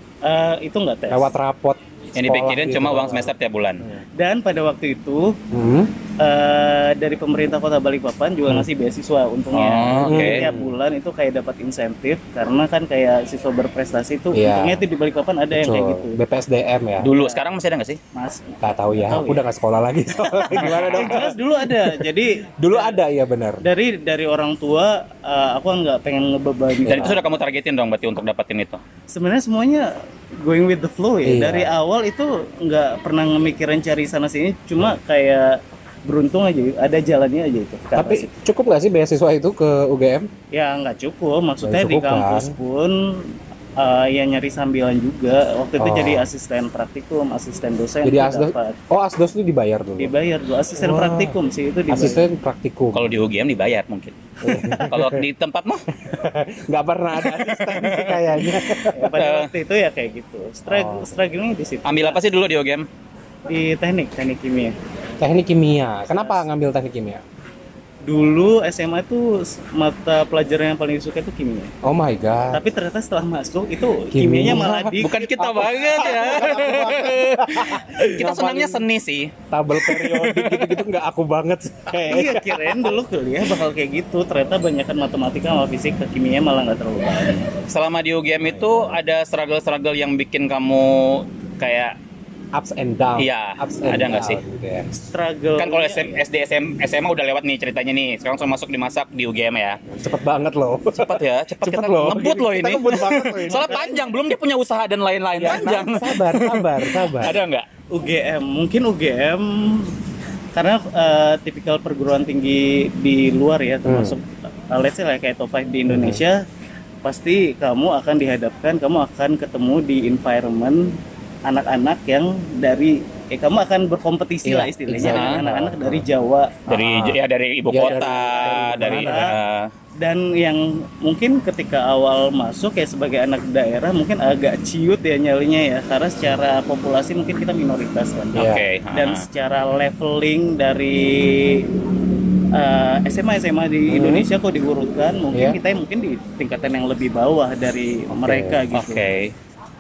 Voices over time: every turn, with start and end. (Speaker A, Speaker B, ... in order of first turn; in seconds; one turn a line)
Speaker A: 0.2-1.3
Speaker B: 1.1-3.3
Speaker C: 2.1-3.8
Speaker A: 4.2-5.4
Speaker B: 5.5-5.9
Speaker A: 6.2-16.2
Speaker C: 9.5-10.5
Speaker B: 10.0-10.7
Speaker B: 14.3-14.8
Speaker B: 15.5-17.1
Speaker C: 17.0-18.0
Speaker A: 17.1-17.4
Speaker A: 18.1-18.6
Speaker B: 18.6-22.0
Speaker A: 19.1-19.4
Speaker A: 20.2-23.0
Speaker C: 20.6-21.3
Speaker B: 22.6-23.6
Speaker A: 23.6-27.2
Speaker B: 26.8-27.2
Speaker C: 26.9-28.8
Speaker A: 29.1-38.3
Speaker B: 31.2-31.7
Speaker B: 37.9-40.3
Speaker A: 40.5-48.8
Speaker B: 41.6-42.5
Speaker B: 45.8-46.3
Speaker B: 48.0-50.1
Speaker A: 50.0-52.2
Speaker B: 50.8-51.3
Speaker B: 51.9-53.1
Speaker C: 52.9-54.2
Speaker B: 54.4-55.2
Speaker A: 54.6-54.9
Speaker C: 54.7-55.8
Speaker B: 56.0-59.2
Speaker C: 57.2-58.6
Speaker A: 58.8-62.2
Speaker C: 59.2-59.5
Speaker B: 60.7-61.1
Speaker C: 61.8-62.9
Speaker A: 63.5-64.7
Speaker B: 65.2-67.2
Speaker A: 66.1-66.5
Speaker A: 68.0-71.7
Speaker B: 71.8-72.6
Speaker A: 72.5-75.2
Speaker B: 74.1-78.8
Speaker C: 75.0-80.8
Speaker B: 79.5-83.0
Speaker A: 82.0-87.5
Speaker C: 87.5-92.0
Speaker B: 88.4-89.0
Speaker B: 92.5-94.9
Speaker C: 93.2-94.4
Speaker A: 94.9-96.2
Speaker C: 95.6-99.8
Speaker B: 100.0-103.8
Speaker C: 100.9-107.7
Speaker A: 103.5-104.2
Speaker B: 105.4-107.4
Speaker A: 107.9-109.9
Speaker A: 110.5-116.4
Speaker B: 113.8-114.2
Speaker B: 115.9-116.2
Speaker A: 117.0-126.6
Speaker B: 124.4-126.0
Speaker C: 125.0-125.4
Speaker C: 126.7-129.7
Speaker B: 126.7-127.2
Speaker B: 127.7-129.4
Speaker A: 128.4-129.3
Speaker A: 130.0-141.7
Speaker B: 138.3-138.6
Speaker C: 138.3-139.2
Speaker A: 142.5-149.0
Speaker B: 143.9-144.3
Speaker B: 145.3-145.6
Speaker B: 148.2-148.6
Speaker C: 148.7-149.3